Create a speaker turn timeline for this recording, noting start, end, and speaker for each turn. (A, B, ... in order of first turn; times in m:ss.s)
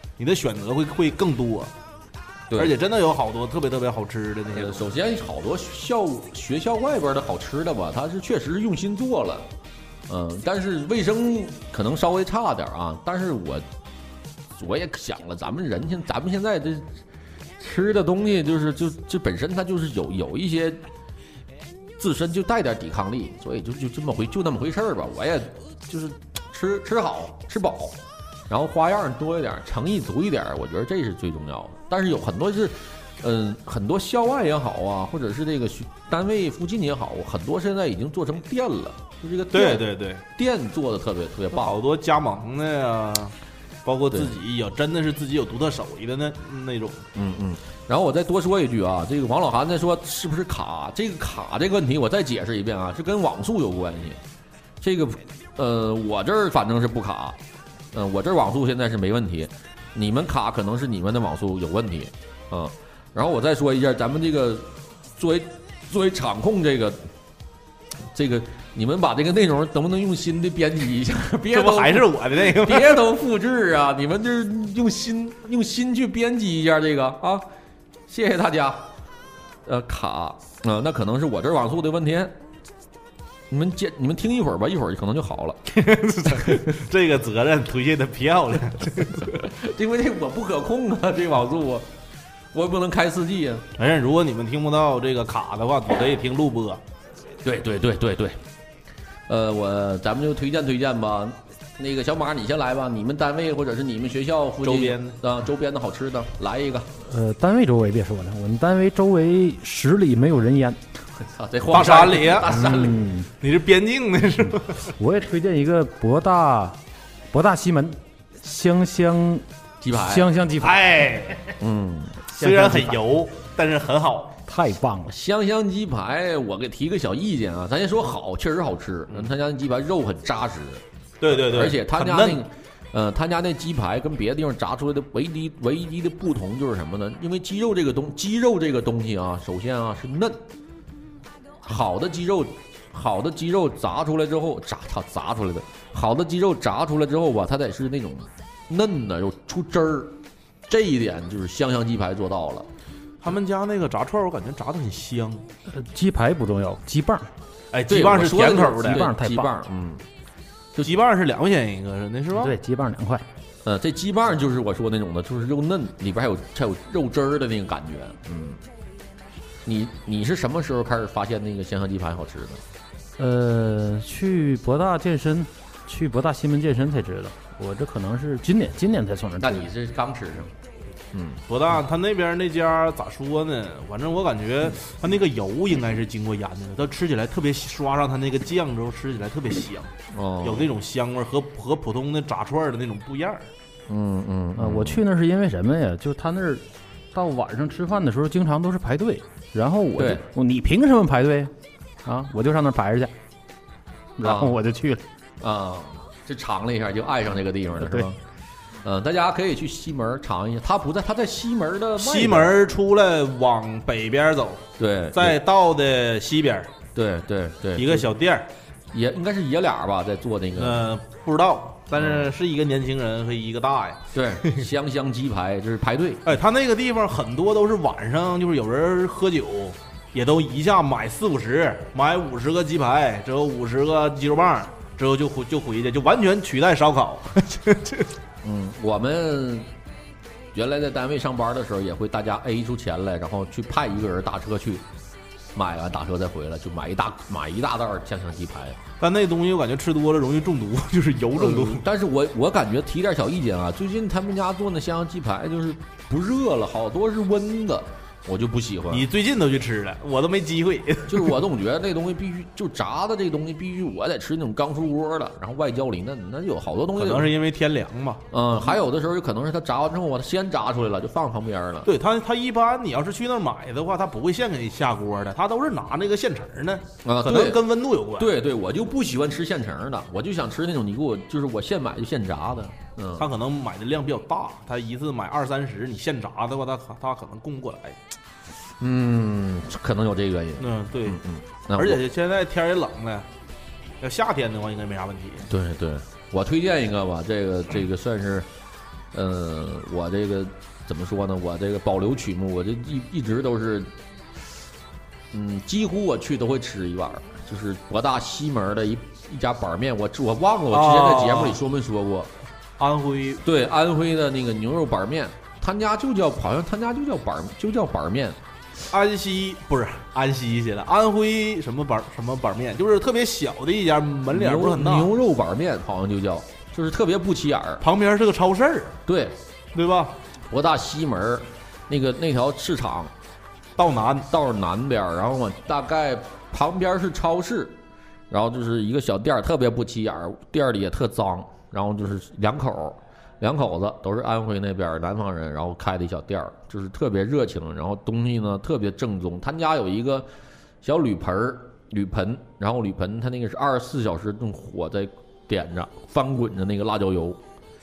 0:00.2-0:01.7 A
0:02.5-0:02.7 B
0:02.6-0:04.8 A
0:04.5-0:09.5 B
0:10.1-0:13.6 B
0:14.6-0:17.0 B
0:17.6-0:20.8 B
0:22.0-0:41.8 B
0:39.5-0:40.2 A
0:41.5-0:43.3 A
0:43.8-0:47.0 A
0:47.1-0:54.2 B
0:54.8-0:57.4 B
0:57.9-1:07.0 B
1:08.1-1:17.4 B
1:11.5-1:13.0 A
1:18.1-1:18.9 B
1:19.6-1:22.4 B
1:23.5-1:25.6 B
1:25.7-1:29.3 A
1:26.3-1:26.7 B
1:29.2-1:31.9 B
1:32.5-1:33.7 B
1:33.8-1:36.8 A
1:37.4-1:38.4 B
1:39.3-1:46.9 B
1:44.6-1:45.2 A
1:47.0-1:50.8 C
1:51.2-1:53.0 B
1:51.7-1:52.6 A
1:52.4-1:53.3 C
1:53.4-1:54.8 A
1:54.9-1:56.8 C
1:57.3-2:01.5 C
1:59.8-2:00.3 B
2:00.6-2:01.5 A
2:01.6-2:02.2 B
2:02.3-2:04.4 A
2:02.3-2:03.0 C
2:04.4-2:05.1 C
2:05.1-2:20.4 B
2:11.2-2:12.4 A
2:21.6-2:32.7 B
2:33.2-2:35.4 A
2:35.7-2:37.3 C
2:37.7-2:39.1 A
2:37.9-2:40.0 B
2:38.8-2:39.5 C
2:40.8-2:42.5 A
2:42.4-2:43.2 C
2:43.6-2:48.6 B
2:49.6-2:52.6 B
2:53.2-2:59.7 C
2:59.4-3:00.5 B
3:01.1-3:01.4 B
3:01.5-3:09.9 A
3:10.1-3:10.7 B
3:10.4-3:13.5 A
3:13.9-3:15.0 B
3:14.6-3:21.5 C
3:20.0-3:20.2 B
3:22.0-3:23.1 C
3:24.2-3:25.0 C
3:24.2-3:24.6 B
3:25.4-3:28.2 B
3:28.8-3:32.6 B
3:32.0-3:36.7 A
3:34.8-3:35.4 B
3:36.9-3:38.1 B
3:37.8-3:38.5 A
3:38.9-3:40.8 B
3:40.6-3:44.6 A
3:41.9-3:42.3 B
3:44.1-3:46.3 B
3:46.2-3:58.1 A
3:58.4-3:59.7 B
4:00.5-4:04.8 B
4:05.5-4:08.8 B
4:09.0-4:11.9 A
4:11.4-4:19.1 B
4:18.9-4:21.4 A
4:21.1-4:27.3 B
4:27.0-4:28.3 A
4:28.3-4:31.9 B
4:31.8-4:38.3 A
4:37.0-4:43.3 B
4:43.2-4:48.0 A
4:48.8-4:52.0 B
4:50.6-4:51.2 A
4:51.7-4:53.3 A
4:54.0-4:55.5 A
4:55.5-4:58.5 B
4:59.1-5:03.9 B
5:05.3-5:12.3 B
5:10.7-5:11.6 A
5:12.8-5:13.4 A
5:13.4-5:18.4 B
5:18.9-5:25.1 A
5:24.3-5:27.8 B
5:27.8-5:29.0 A
5:29.1-5:29.4 B
5:29.7-5:30.1 A
5:30.5-5:33.1 B
5:33.8-5:34.3 A
5:34.3-5:37.8 B
5:38.3-5:50.3 B
5:50.8-5:57.4 B